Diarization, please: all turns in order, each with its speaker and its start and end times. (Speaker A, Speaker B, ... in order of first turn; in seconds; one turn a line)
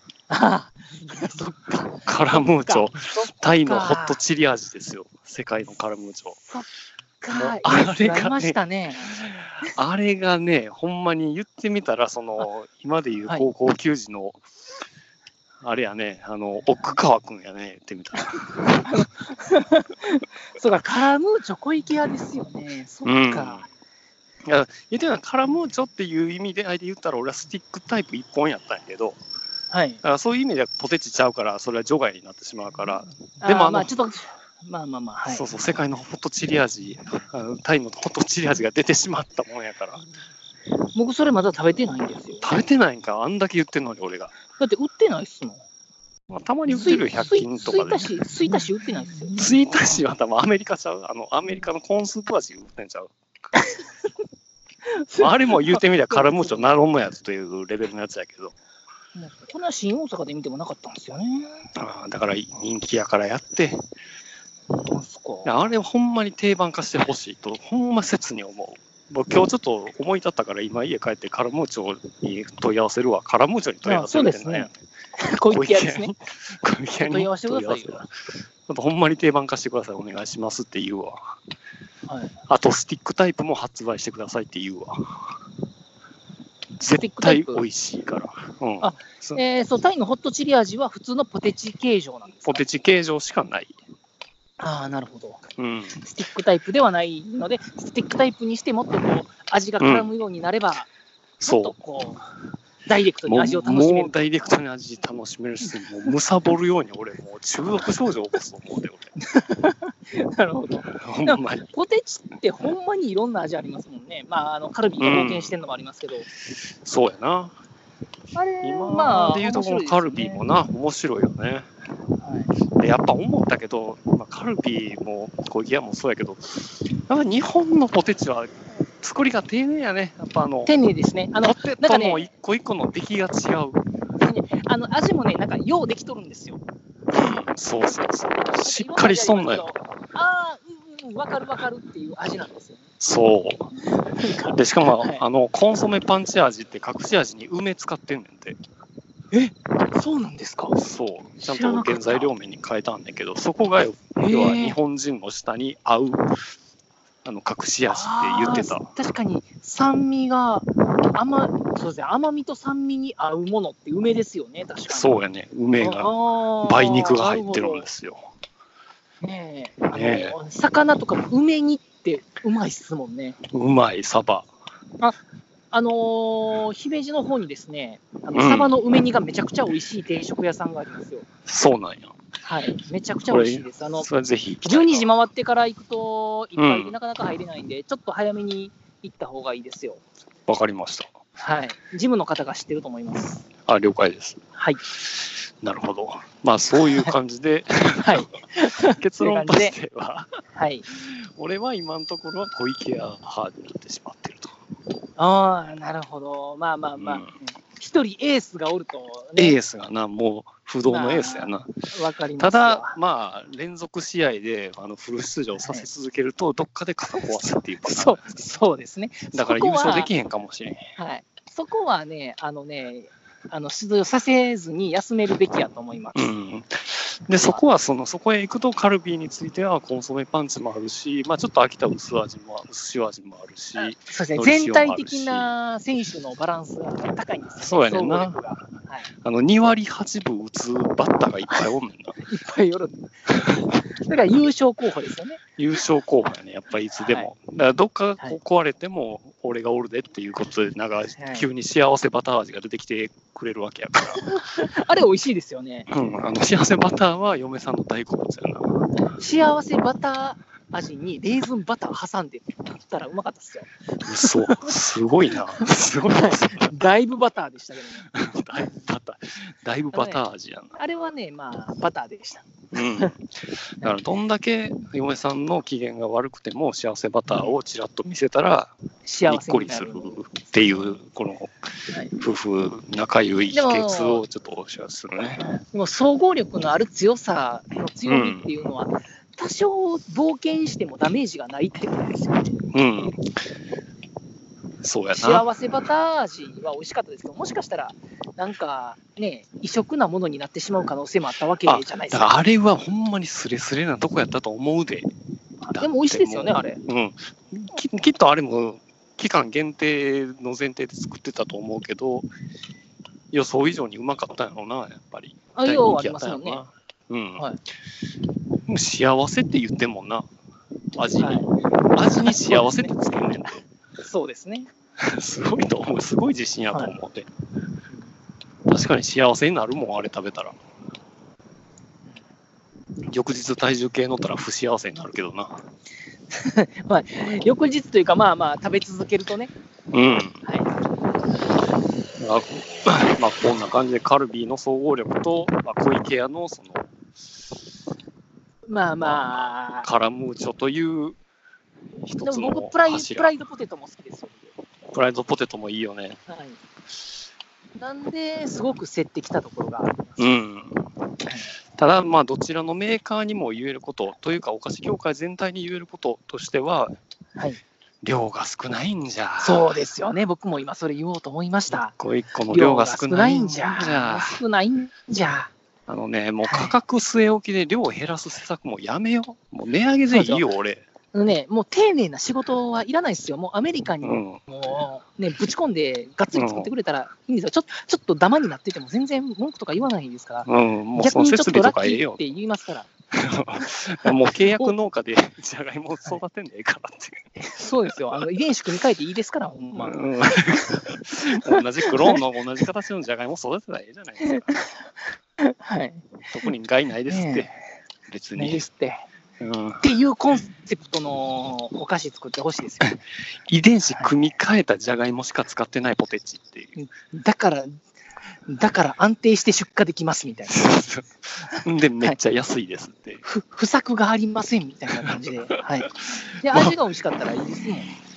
Speaker A: 0.3-4.2
Speaker B: 1.8-6.4
Speaker A: 6.4-6.7
Speaker A: 7.2-9.8
Speaker B: 7.3-8.6
Speaker B: 9.2-14.4
Speaker B: 15.6-19.1
Speaker A: 18.7-23.7
Speaker B: 23.1-23.7
Speaker B: 24.4-29.2
Speaker A: 29.7-30.0
Speaker B: 30.0-33.9
Speaker A: 33.4-35.5
Speaker B: 35.3-40.0
Speaker A: 41.0-42.5
Speaker B: 42.4-44.3
Speaker A: 44.6-45.6
Speaker B: 46.3-48.1
Speaker A: 46.7-49.5
Speaker B: 49.4-53.1
Speaker A: 53.6-53.8
Speaker A: 54.9-56.6
Speaker B: 55.2-58.5
Speaker A: 59.2-61.6
Speaker B: 61.8-63.8
Speaker A: 64.8-65.5
Speaker B: 65.5-74.8
Speaker A: 73.8-76.1
Speaker B: 75.5-81.4
Speaker A: 77.0-78.0
Speaker A: 82.1-82.3
Speaker B: 82.5-85.4
Speaker B: 86.8-89.4
Speaker A: 86.9-87.6
Speaker A: 88.8-92.6
Speaker B: 92.5-93.8
Speaker A: 94.6-95.4
Speaker B: 95.6-96.0
Speaker A: 96.0-100.9
Speaker B: 99.8-100.1
Speaker B: 101.4-101.8
Speaker A: 101.4-102.2
Speaker A: 102.9-104.2
Speaker B: 103.3-109.1
Speaker A: 109.2-116.3
Speaker B: 110.9-111.7
Speaker B: 115.0-115.6
Speaker B: 116.8-117.5
Speaker A: 118.3-120.5
Speaker B: 118.6-121.7
Speaker A: 122.2-122.5
Speaker B: 122.7-130.7
Speaker A: 130.7-132.3
Speaker B: 131.4-133.8
Speaker A: 134.2-136.6
Speaker B: 137.1-139.7
Speaker A: 138.6-142.9
Speaker B: 143.0-143.7
Speaker A: 143.9-145.2
Speaker B: 144.5-148.6
Speaker A: 149.3-150.8
Speaker B: 150.8-156.5
Speaker A: 151.4-152.3
Speaker A: 154.2-154.8
Speaker B: 157.2-158.9
Speaker A: 157.8-165.1
Speaker B: 164.9-168.3
Speaker A: 165.8-167.9
Speaker A: 169.2-173.4
Speaker B: 169.9-170.4
Speaker B: 173.5-174.5
Speaker A: 175.7-181.3
Speaker B: 178.3-178.7
Speaker B: 181.5-182.2
Speaker A: 182.4-184.1
Speaker B: 183.3-185.1
Speaker A: 184.6-190.0
Speaker B: 186.6-186.9
Speaker B: 190.5-191.1
Speaker A: 191.4-193.4
Speaker B: 193.7-194.4
Speaker A: 194.6-194.8
Speaker B: 195.0-200.3
Speaker A: 196.8-197.1
Speaker A: 198.0-199.8
Speaker A: 200.6-200.9
Speaker B: 201.0-204.6
Speaker A: 205.2-209.6
Speaker B: 207.0-207.3
Speaker B: 209.4-211.8
Speaker A: 210.9-213.0
Speaker B: 212.4-218.3
Speaker A: 215.6-215.9
Speaker A: 217.9-220.1
Speaker B: 219.3-220.9
Speaker A: 221.0-226.3
Speaker B: 226.2-235.5
Speaker A: 233.8-239.1
Speaker B: 237.6-242.2
Speaker A: 242.2-245.4
Speaker B: 245.6-254.3
Speaker A: 247.0-247.3
Speaker A: 251.2-251.5
Speaker A: 254.2-255.9
Speaker B: 255.9-259.0
Speaker A: 259.2-264.8
Speaker B: 264.0-266.7
Speaker A: 265.6-268.1
Speaker B: 268.1-270.8
Speaker A: 269.9-270.2
Speaker A: 270.8-273.1
Speaker B: 272.7-278.7
Speaker A: 279.1-280.2
Speaker B: 279.2-281.5
Speaker B: 282.2-285.4
Speaker A: 283.5-284.2
Speaker A: 285.4-292.6
Speaker B: 288.1-288.5
Speaker B: 292.7-293.4
Speaker B: 294.8-295.5
Speaker A: 295.1-302.4
Speaker B: 301.6-305.1
Speaker A: 305.6-306.8
Speaker B: 305.7-312.3
Speaker B: 313.3-317.4
Speaker A: 315.6-316.7
Speaker B: 318.7-320.3
Speaker B: 320.9-323.6
Speaker A: 321.2-321.5
Speaker A: 322.1-322.9
Speaker A: 324.0-324.7
Speaker B: 325.0-327.3
Speaker B: 328.7-330.6
Speaker B: 333.1-335.6
Speaker A: 336.3-339.5
Speaker B: 339.9-340.4
Speaker A: 340.4-340.7
Speaker B: 342.2-346.9
Speaker A: 348.7-349.9
Speaker B: 349.0-351.2
Speaker B: 352.0-353.3
Speaker A: 352.2-354.5
Speaker B: 354.9-356.2
Speaker A: 356.3-356.6
Speaker A: 357.8-360.3
Speaker B: 360.2-360.9
Speaker B: 361.8-366.9
Speaker B: 368.0-369.8
Speaker A: 369.4-371.9
Speaker B: 371.7-374.4
Speaker A: 372.5-375.5
Speaker B: 375.9-380.8
Speaker A: 376.4-376.7
Speaker A: 380.1-380.4
Speaker A: 381.1-392.9
Speaker B: 384.0-384.4
Speaker B: 386.3-386.7
Speaker B: 390.5-392.2
Speaker B: 393.1-397.2
Speaker A: 397.4-400.4
Speaker B: 399.8-404.6
Speaker A: 401.5-402.2
Speaker A: 404.2-404.8
Speaker A: 405.4-406.1
Speaker B: 406.3-407.5
Speaker A: 407.1-407.5
Speaker B: 408.1-408.6
Speaker A: 408.4-409.0
Speaker B: 409.4-409.8
Speaker A: 409.8-413.0
Speaker B: 412.8-416.8
Speaker A: 416.8-417.8
Speaker A: 418.5-420.7
Speaker B: 420.5-423.2
Speaker A: 421.5-422.2
Speaker A: 423.2-427.9
Speaker B: 425.0-425.2